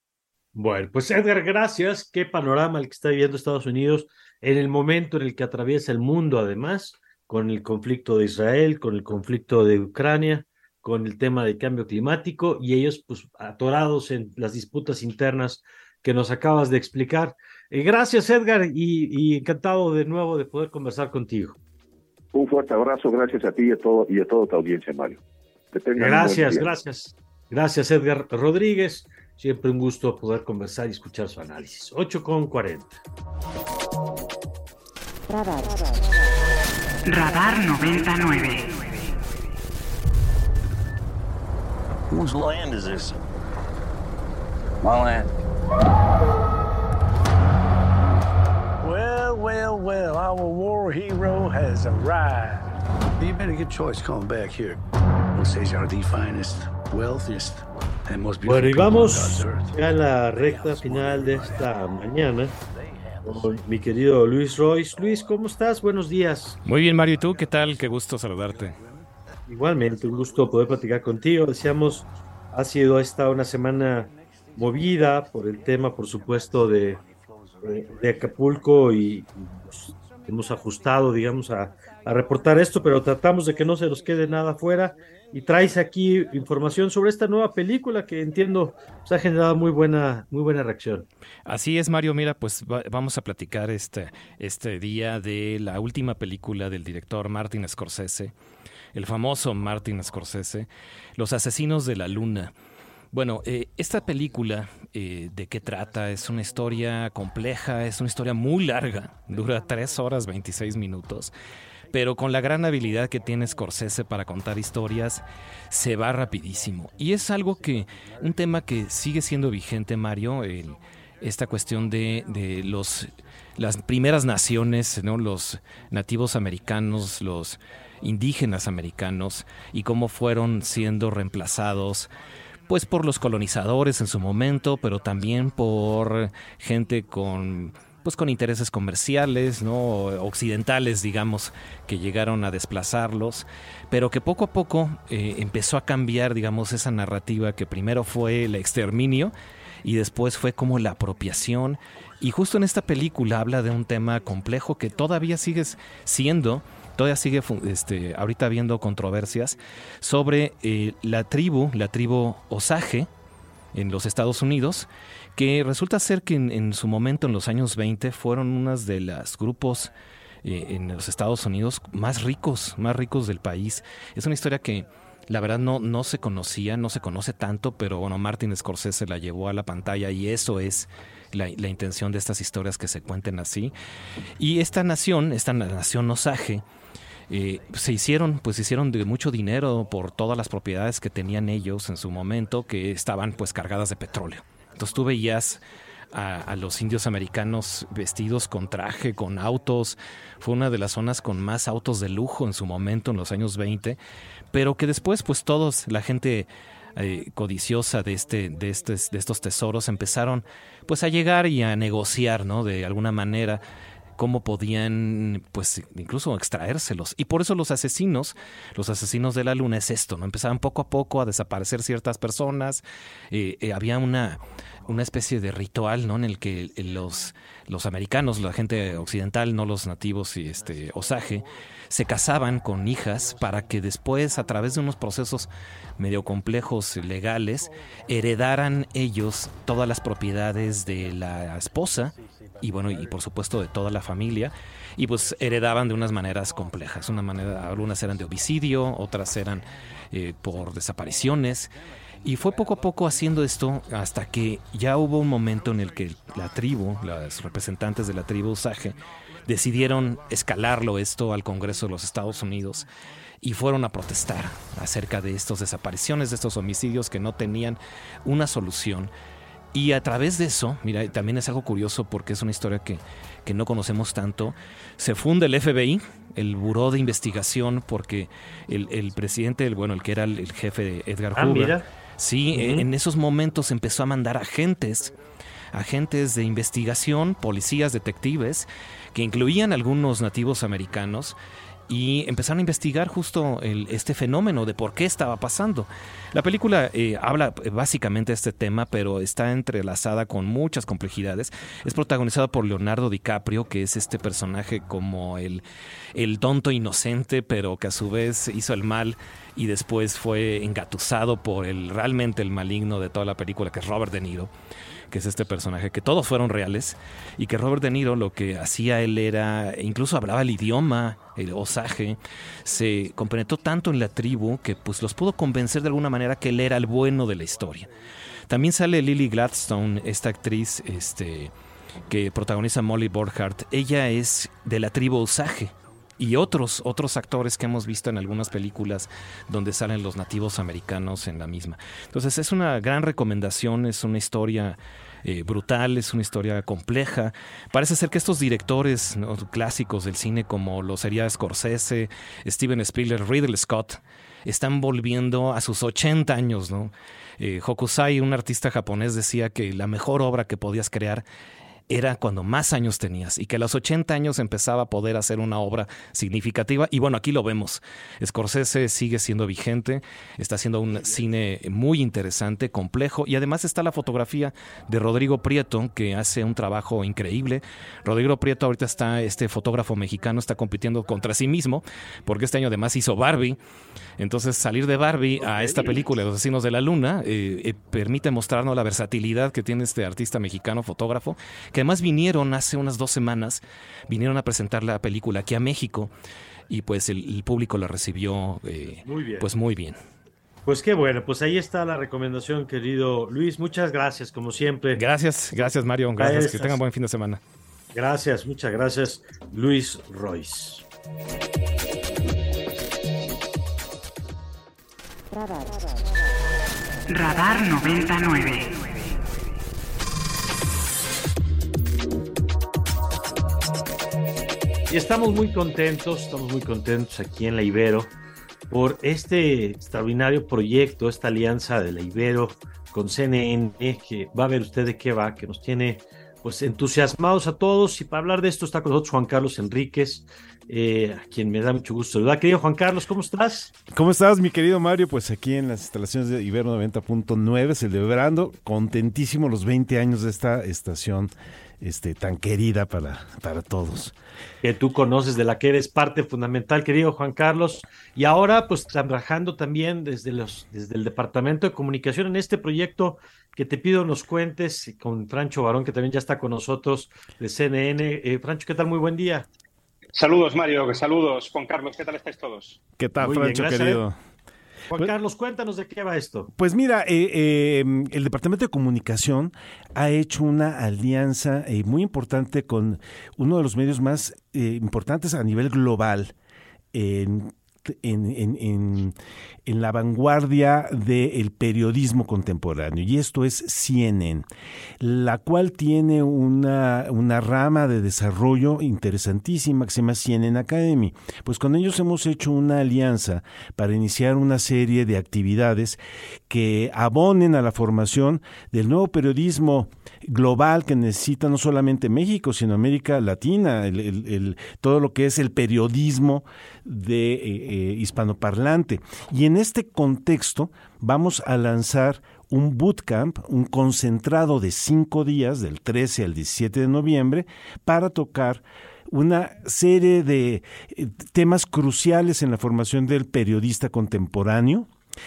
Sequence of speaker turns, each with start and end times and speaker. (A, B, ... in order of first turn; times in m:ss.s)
0:00.5-0:21.6 A
0:22.3-0:25.2 B
0:25.7-0:26.7 B
0:26.0-0:33.0 A
0:37.0-0:38.7 C
0:42.1-0:43.2 D
0:44.8-0:45.3 D
0:48.8-0:54.8 D
0:55.3-1:02.0 D
0:58.4-1:02.5 A
1:02.5-1:03.7 D
1:03.2-1:06.6 A
1:04.9-1:05.6 D
1:06.6-1:08.8 E
1:06.9-1:07.9 D
1:08.4-1:09.1 D
1:09.5-1:17.0 A
1:10.0-1:10.8 D
1:14.6-1:15.1 D
1:16.7-1:17.0 D
1:17.6-1:31.1 A
1:31.5-1:38.3 E
1:38.9-1:42.5 E
1:43.1-1:51.4 E
1:51.9-2:12.1 E
2:12.7-2:43.1 E
2:43.7-2:49.9 E
2:50.4-3:03.8 E
3:04.4-3:06.6 E
3:07.3-3:24.0 E
3:24.5-3:33.6 E
3:34.2-4:22.9 E
4:23.4-4:29.1 E
4:29.7-4:45.2 E
4:41.3-4:41.8 A
4:42.5-4:42.9 A
4:45.7-4:51.4 E
4:51.9-5:14.5 E
5:15.1-5:27.9 E
5:28.5-5:31.5 E
5:32.1-6:01.2 E
6:01.9-6:23.6 E
6:24.2-6:36.1 E
6:25.5-6:25.9 A
6:36.7-6:40.0 E
6:39.0-6:39.5 A
6:40.7-6:46.8 A
6:44.9-6:47.4 E
6:47.9-6:50.8 A
6:57.1-6:58.8 C
7:04.9-7:08.1 A
7:08.7-7:23.7 A
7:23.9-7:34.1 F
7:34.6-7:49.5 A
7:50.2-7:52.8 G
7:53.0-7:54.2 F
7:53.2-7:54.0 A
7:54.9-7:56.5 A
7:56.6-8:06.3 F
8:06.9-8:09.2 F
8:09.7-8:14.5 F
8:15.0-8:54.9 F